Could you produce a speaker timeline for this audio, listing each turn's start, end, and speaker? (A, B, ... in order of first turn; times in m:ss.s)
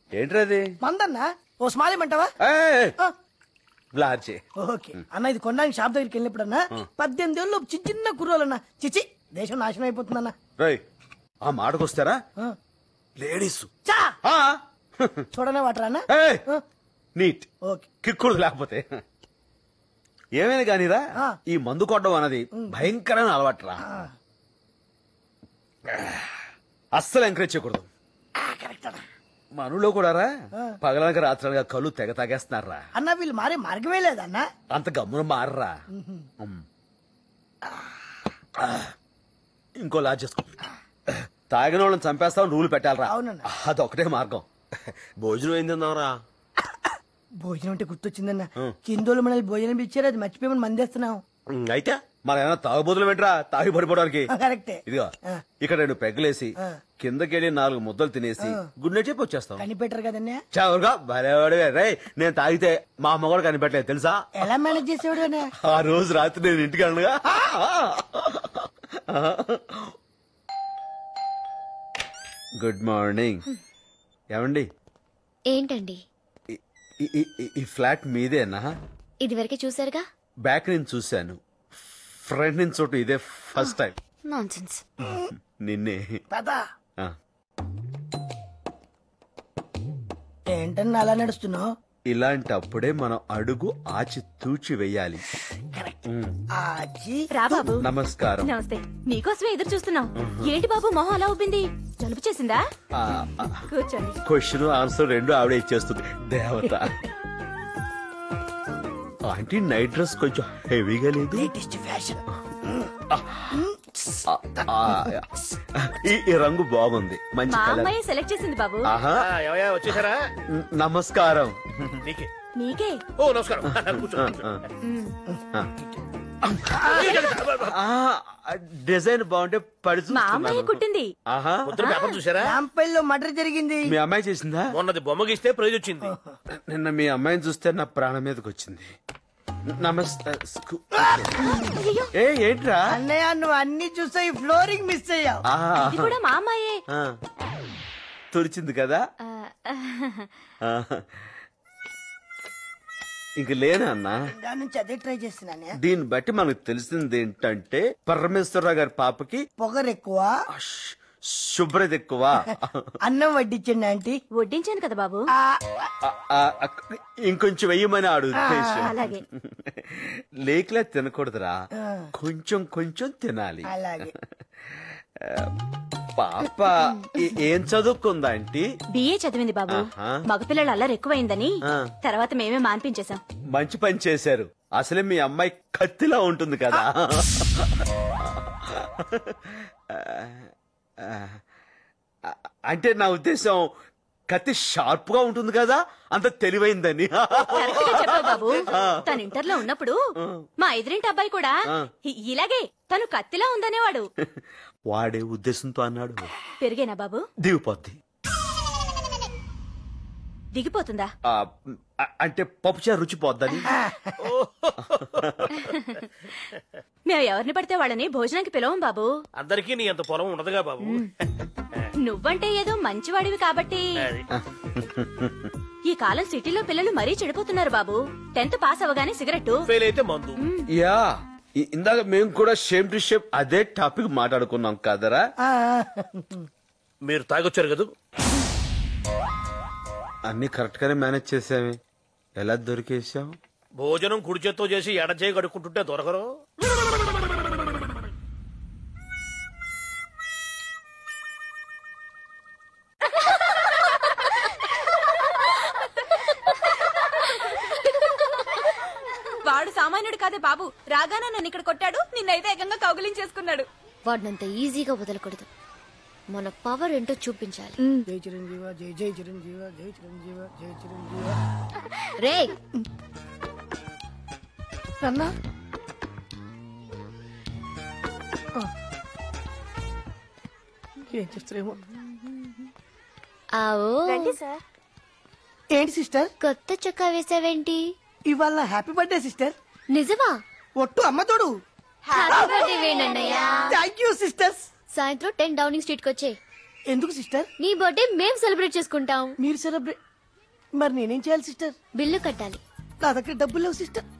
0:00.1-0:00.7 A
0:00.8-0:02.3 B
0:02.4-0:03.0 A
0:03.9-0:04.4 A
0:04.6-0:10.3 B
0:11.4-0:12.2 A
0:13.2-0:13.7 A
0:13.8-0:14.2 B
0:14.2-0:15.3 A
0:15.3-0:16.6 B
0:16.1-0:16.4 A
0:17.2-0:17.5 A
0:18.0-0:19.0 A
0:20.4-0:23.8 A
0:22.6-0:22.8 B
0:23.8-0:24.1 B
0:25.9-0:26.3 A
0:26.9-0:27.9 A
0:28.4-0:29.0 B
0:29.5-0:30.3 A
0:30.8-0:32.8 A
0:33.0-0:34.4 B
0:34.7-0:35.8 A
0:35.9-0:36.3 B
0:38.6-0:38.9 A
0:39.8-0:40.5 A
0:41.1-0:44.4 A
0:43.1-0:43.4 B
0:45.2-0:46.2 A
0:47.4-0:51.2 B
0:51.5-0:52.0 C
0:52.2-0:54.3 A
0:54.3-0:55.4 B
0:54.8-0:59.6 A
0:58.4-0:58.6 B
0:59.6-1:00.4 B
1:00.5-1:04.2 A
1:04.4-1:05.5 B
1:05.6-1:10.0 A
1:12.6-1:13.4 A
1:14.3-1:14.6 A
1:15.5-1:16.0 D
1:16.5-1:18.7 A
1:19.2-1:20.0 D
1:20.4-1:21.4 A
1:22.2-1:24.0 A
1:24.3-1:24.8 D
1:25.6-1:26.2 A
1:26.3-1:26.6 B
1:30.5-1:31.7 B
1:32.1-1:35.2 A
1:35.7-1:36.0 B
1:36.1-1:36.3 A
1:36.6-1:37.7 B
1:37.3-1:37.8 E
1:37.8-1:38.5 A
1:38.4-1:42.6 E
1:40.2-1:40.5 A
1:42.9-1:43.7 A
1:43.7-1:44.2 E
1:44.2-1:47.0 A
1:49.3-1:51.5 A
1:51.4-1:52.2 B
1:53.1-1:53.6 A
1:53.5-1:55.1 B
1:54.3-1:57.9 A
1:57.5-1:58.9 E
1:58.8-1:59.3 A
1:59.2-2:00.3 C
2:00.5-2:02.0 A
2:02.0-2:02.3 C
2:02.6-2:03.0 E
2:03.2-2:04.5 C
2:03.7-2:04.6 A
2:04.8-2:05.1 E
2:06.4-2:11.8 A
2:06.8-2:07.1 B
2:06.9-2:07.7 C
2:10.1-2:11.1 E
2:11.7-2:12.5 C
2:11.7-2:12.2 E
2:12.4-2:13.8 B
2:13.9-2:14.7 A
2:14.7-2:16.1 C
2:16.0-2:16.3 B
2:16.5-2:18.9 A
2:19.7-2:22.8 A
2:21.5-2:22.1 E
2:22.9-2:25.4 B
2:25.5-2:26.2 A
2:25.8-2:26.8 E
2:28.3-2:29.0 A
2:30.7-2:31.1 A
2:33.4-2:34.2 A
2:34.3-2:35.8 B
2:35.8-2:39.4 A
2:39.6-2:40.3 B
2:40.5-2:43.0 A
2:43.0-2:44.2 B
2:44.4-2:45.2 E
2:45.4-2:45.8 B
2:46.0-2:51.6 A
2:48.4-2:48.9 B
2:48.8-2:49.2 E
2:51.8-2:52.1 B
2:52.1-2:54.2 A
2:53.7-2:54.1 B
2:54.8-2:55.5 A
2:56.2-2:58.6 A
2:58.9-3:03.2 E
2:59.7-3:00.2 A
3:03.5-3:11.4 A
3:12.2-3:13.7 A
3:14.3-3:19.2 A
3:17.4-3:19.9 E
3:20.2-3:20.5 A
3:20.6-3:21.5 E
3:22.0-3:24.1 E
3:24.9-3:26.3 A
3:26.6-3:27.2 E
3:27.4-3:28.0 A
3:30.5-3:31.1 E
3:31.3-3:33.7 A
3:34.2-3:35.2 C
3:35.5-3:36.1 E
3:37.1-3:39.1 E
3:39.3-3:41.0 C
3:40.8-3:41.1 E
3:42.0-3:44.0 E
3:44.3-3:45.5 A
3:45.8-3:49.6 E
3:49.7-3:50.4 C
3:50.4-3:50.6 E
3:50.7-3:55.2 A
3:55.4-3:56.4 B
3:57.0-3:57.9 C
4:00.2-4:01.8 A
4:02.4-4:03.4 A
4:03.8-4:06.3 C
4:16.9-4:18.7 E
4:19.4-4:23.7 E
4:24.1-4:25.5 D
4:26.3-4:27.8 D
4:28.1-4:31.4 B
4:32.2-4:32.5 D
4:35.0-4:35.3 B
4:41.0-4:41.8 B
4:43.6-4:44.4 D
4:45.7-4:46.3 B
4:46.4-4:47.8 D
4:48.3-4:49.6 B
4:49.9-4:50.4 D
4:50.8-4:51.5 B
4:52.1-4:52.6 B
4:52.1-4:53.8 D
4:53.6-4:54.6 B
4:54.9-4:56.4 D
4:56.9-4:57.5 B
4:57.6-4:59.3 D
4:59.4-5:00.0 B
5:00.8-5:01.7 B
5:02.0-5:02.6 D
5:03.0-5:04.0 B